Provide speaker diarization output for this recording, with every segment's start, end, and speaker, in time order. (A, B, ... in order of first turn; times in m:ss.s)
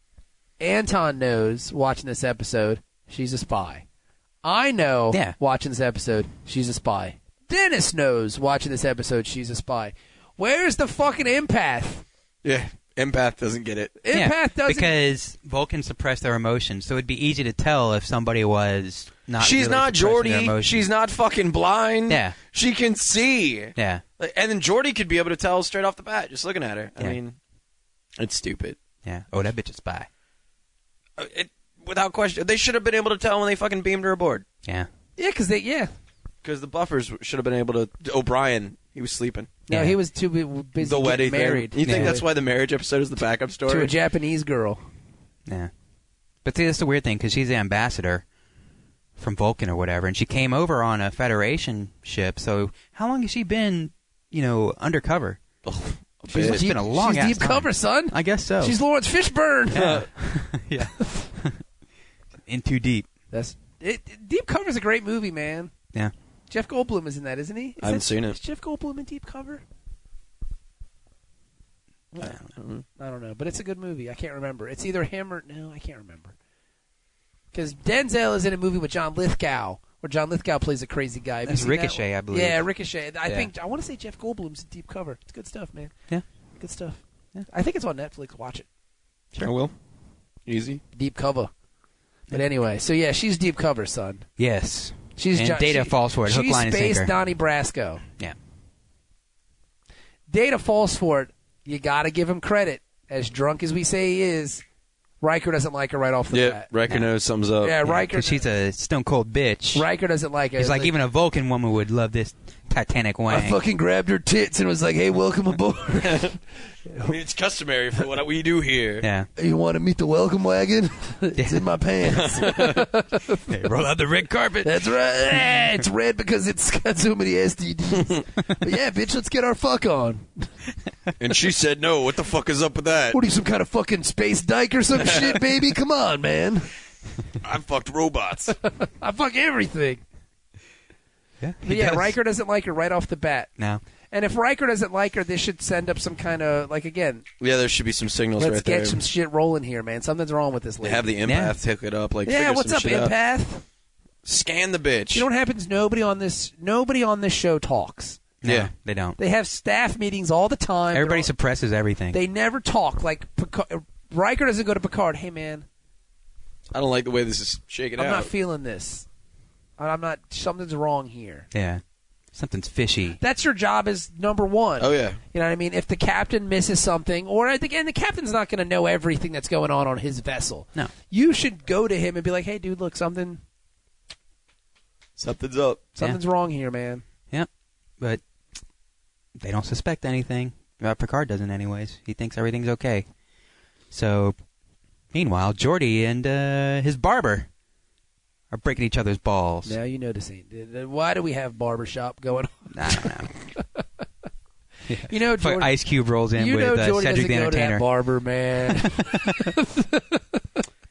0:00.6-0:03.8 A
0:04.4-0:12.0 A
0:12.4-0:14.0 B
0:14.0-0:14.9 A
0:14.1-0:20.8 C
0:19.4-0:27.4 B
0:22.1-0:22.4 C
0:23.8-0:24.0 C
0:28.2-0:28.8 B
0:29.0-0:30.1 C
0:31.2-0:34.4 B
0:35.2-0:35.9 A
0:36.4-0:39.5 B
0:39.7-0:42.2 A
0:39.7-0:40.0 C
0:40.8-0:43.9 B
0:41.8-0:42.2 C
0:43.7-0:44.8 A
0:46.4-0:48.2 C
0:49.2-0:55.4 C
0:55.6-0:56.7 B
0:56.3-1:00.1 A
0:56.4-0:58.8 C
0:59.7-1:01.6 C
1:02.4-1:03.1 C
1:03.3-1:05.7 A
1:06.5-1:09.6 A
1:07.8-1:08.4 B
1:12.2-1:12.5 C
1:12.2-1:12.8 B
1:13.0-1:16.3 A
1:17.5-1:25.9 A
1:21.4-1:22.6 C
1:26.6-1:28.6 A
1:29.4-1:29.7 B
1:30.4-1:30.8 B
1:30.9-1:31.5 A
1:32.3-1:34.3 A
1:34.4-1:37.1 C
1:35.2-1:38.0 A
1:40.3-1:44.6 A
1:45.2-1:46.7 A
1:46.3-1:47.8 B
1:47.6-1:48.4 A
1:47.8-1:49.8 C
1:49.7-1:50.9 A
1:50.6-1:53.6 C
1:53.3-1:57.1 A
1:56.0-1:56.3 B
1:57.0-1:59.1 B
1:59.0-1:59.3 C
1:59.4-2:03.5 A
2:01.4-2:01.6 C
2:02.1-2:02.8 B
2:03.5-2:04.6 C
2:03.6-2:04.6 B
2:04.6-2:10.5 A
2:11.2-2:13.2 B
2:13.1-2:16.7 A
2:15.0-2:15.4 B
2:17.4-2:18.6 B
2:18.6-2:20.0 A
2:21.4-2:22.1 C
2:21.6-2:23.5 A
2:24.1-2:27.2 A
2:27.4-2:29.0 B
2:28.4-2:31.1 A
2:30.8-2:33.1 B
2:31.2-2:31.5 C
2:32.2-2:33.6 A
2:34.2-2:35.2 B
2:35.1-2:38.2 A
2:38.4-2:39.2 C
2:38.4-2:38.7 B
2:39.2-2:41.3 A
2:40.9-2:42.2 C
2:42.1-2:45.6 A
2:46.7-2:48.3 B
2:48.0-2:49.0 A
2:49.8-2:51.5 A
2:51.5-2:51.8 C
2:52.3-2:53.2 C
2:53.2-3:03.4 A
2:54.8-2:55.2 B
3:05.2-3:05.9 B
3:06.0-3:07.0 A
3:09.4-3:13.1 C
3:13.9-3:14.4 C
3:15.1-3:17.5 C
3:18.5-3:19.8 C
3:19.6-3:23.8 A
3:22.7-3:23.3 C
3:24.9-3:27.8 C
3:25.1-3:25.7 A
3:26.4-3:30.4 A